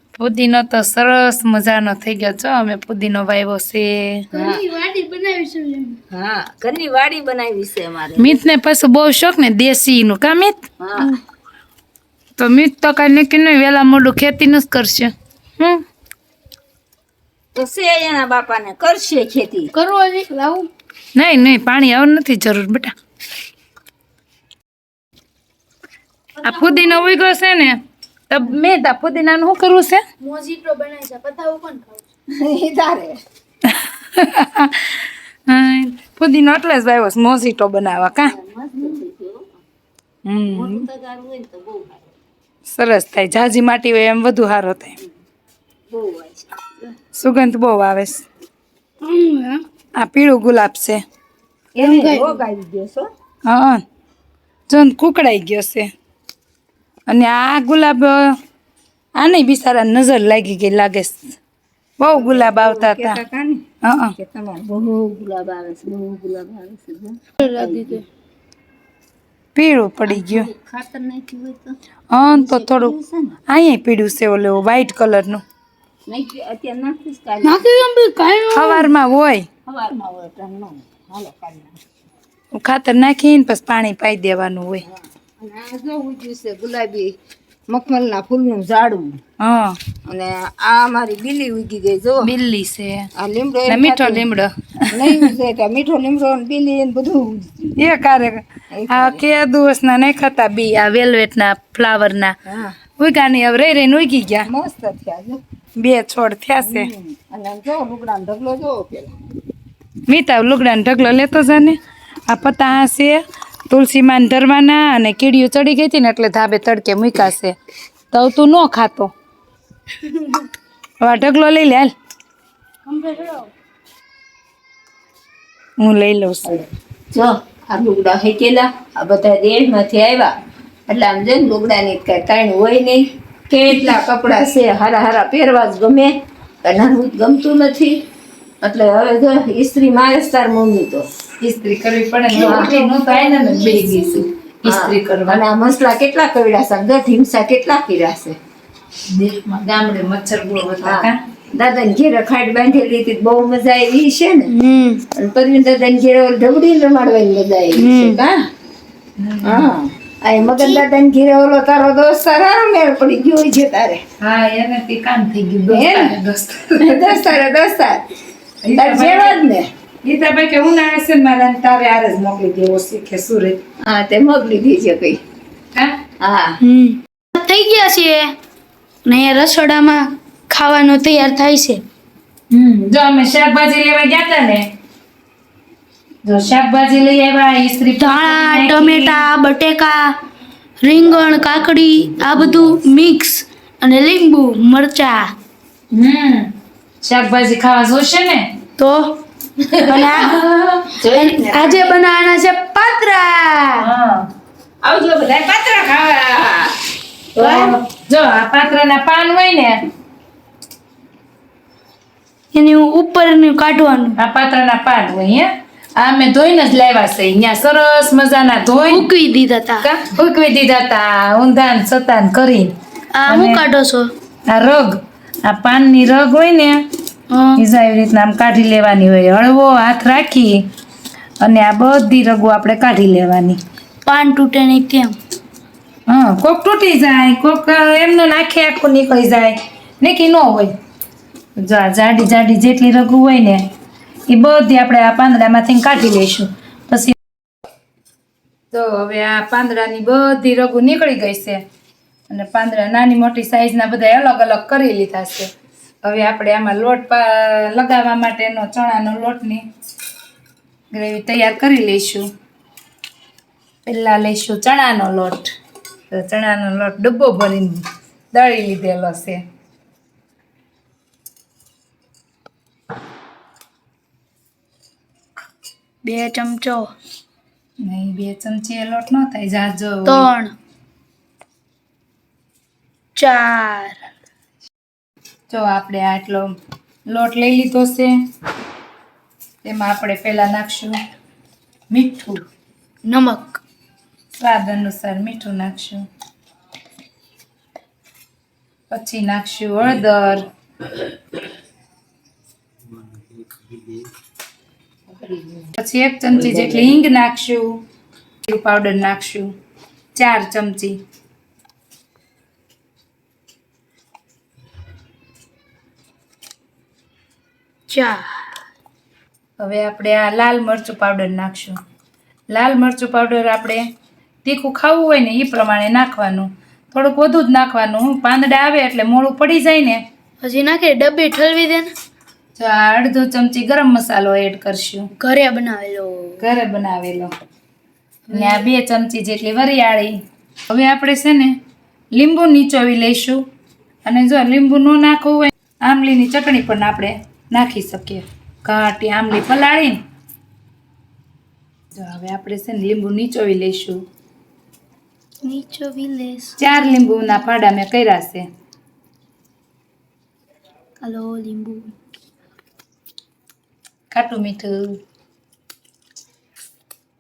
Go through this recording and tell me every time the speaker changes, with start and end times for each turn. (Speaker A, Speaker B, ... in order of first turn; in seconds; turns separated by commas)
Speaker A: 0.2-4.3, Speaker B: 4.3-6.0, Speaker C: 4.3-4.6, Speaker C: 6.1-8.4, Speaker A: 8.2-11.1, Speaker C: 10.8-11.2, Speaker A: 12.4-15.8, Speaker C: 17.6-19.7, Speaker B: 19.7-20.7, Speaker A: 21.1-22.9, Speaker B: 26.4-27.2, Speaker A: 26.4-30.0, Speaker B: 30.2-32.0, Speaker C: 32.3-33.2, Speaker A: 33.6-38.4, Speaker C: 38.2-39.5, Speaker A: 40.2-40.9, Speaker C: 40.5-42.0, Speaker A: 42.7-45.0, Speaker C: 45.9-46.8, Speaker A: 47.1-48.3, Speaker B: 49.0-49.6, Speaker A: 50.0-51.0, Speaker C: 51.8-53.1, Speaker B: 51.8-52.4, Speaker A: 53.5-53.8, Speaker A: 54.7-55.9, Speaker A: 57.1-58.3, Speaker A: 59.2-61.4, Speaker A: 62.0-63.2, Speaker C: 62.1-63.6, Speaker A: 63.8-64.2, Speaker C: 64.2-68.0, Speaker B: 67.4-68.0, Speaker A: 69.5-70.5, Speaker C: 70.1-71.8, Speaker A: 72.1-72.9, Speaker C: 72.3-73.4, Speaker A: 73.5-75.4, Speaker C: 76.1-77.7, Speaker B: 77.4-78.9, Speaker A: 78.5-79.5, Speaker C: 79.7-81.8, Speaker A: 82.5-84.8, Speaker C: 84.9-87.2, Speaker C: 87.7-89.2, Speaker A: 89.4-89.8, Speaker C: 90.1-92.3, Speaker A: 92.2-93.1, Speaker C: 93.2-94.2, Speaker A: 93.7-95.3, Speaker C: 94.9-97.5, Speaker A: 97.8-102.3, Speaker C: 98.7-99.2, Speaker C: 102.5-102.8, Speaker A: 103.0-104.5, Speaker C: 104.5-105.4, Speaker A: 105.8-106.9, Speaker C: 106.6-109.1, Speaker A: 110.1-117.6, Speaker A: 118.1-119.1, Speaker B: 120.0-120.5, Speaker A: 121.0-121.9, Speaker B: 122.9-123.5, Speaker A: 125.8-126.5, Speaker C: 126.5-130.3, Speaker C: 130.9-138.0, Speaker C: 138.6-141.1, Speaker A: 141.4-145.4, Speaker C: 142.3-143.9, Speaker B: 143.3-143.8, Speaker C: 144.7-148.4, Speaker A: 149.1-151.2, Speaker C: 150.8-154.5, Speaker B: 154.5-155.1, Speaker C: 155.1-158.4, Speaker B: 157.8-158.2, Speaker A: 159.2-159.7, Speaker C: 159.4-164.0, Speaker A: 164.2-167.3, Speaker C: 165.7-166.2, Speaker C: 166.8-168.0, Speaker A: 168.7-169.5, Speaker C: 168.7-169.7, Speaker A: 170.1-173.6, Speaker C: 173.8-175.2, Speaker C: 176.2-176.6, Speaker B: 176.6-178.3, Speaker B: 179.1-181.8, Speaker A: 182.5-184.6, Speaker A: 186.2-189.2, Speaker B: 188.0-190.2, Speaker B: 190.8-195.3, Speaker A: 195.9-198.5, Speaker B: 198.8-199.2, Speaker B: 199.8-200.4, Speaker A: 200.1-200.9, Speaker C: 201.0-201.9, Speaker B: 201.0-203.9, Speaker A: 203.8-204.2, Speaker C: 204.8-206.8, Speaker A: 207.4-209.8, Speaker B: 207.4-207.8, Speaker B: 212.5-214.2, Speaker A: 214.2-219.1, Speaker B: 218.9-219.9, Speaker A: 219.8-222.7, Speaker B: 223.2-224.1, Speaker A: 223.3-223.6, Speaker A: 224.5-224.9, Speaker A: 225.4-226.8, Speaker B: 227.3-227.6, Speaker A: 227.6-230.7, Speaker A: 231.4-233.6, Speaker B: 234.1-235.2, Speaker A: 236.1-240.7, Speaker A: 241.6-243.6, Speaker A: 244.3-247.2, Speaker A: 248.7-251.6, Speaker A: 252.3-255.5, Speaker A: 256.0-259.7, Speaker A: 260.9-262.3, Speaker A: 263.9-265.5, Speaker A: 266.1-269.4, Speaker B: 276.0-276.9, Speaker A: 277.8-280.3, Speaker B: 280.1-280.6, Speaker B: 283.2-284.0, Speaker A: 285.5-286.5, Speaker A: 287.1-288.1, Speaker A: 289.6-291.0, Speaker A: 291.9-292.4, Speaker B: 293.1-293.6, Speaker A: 294.4-296.1, Speaker A: 298.9-300.4, Speaker C: 305.1-305.7, Speaker A: 305.8-307.8, Speaker C: 306.5-306.9, Speaker A: 308.4-309.5, Speaker A: 310.1-311.0, Speaker B: 317.9-318.5, Speaker A: 319.6-321.8, Speaker A: 322.5-323.8, Speaker A: 324.4-330.0, Speaker B: 330.4-331.9, Speaker A: 332.6-335.1, Speaker B: 335.2-336.4, Speaker A: 336.4-337.3, Speaker B: 338.3-338.6, Speaker A: 338.3-340.2, Speaker A: 340.7-341.6, Speaker A: 342.1-343.4, Speaker A: 344.1-350.0, Speaker A: 351.9-354.0, Speaker B: 355.4-356.6, Speaker A: 356.6-358.5, Speaker B: 361.0-361.9, Speaker A: 364.1-364.9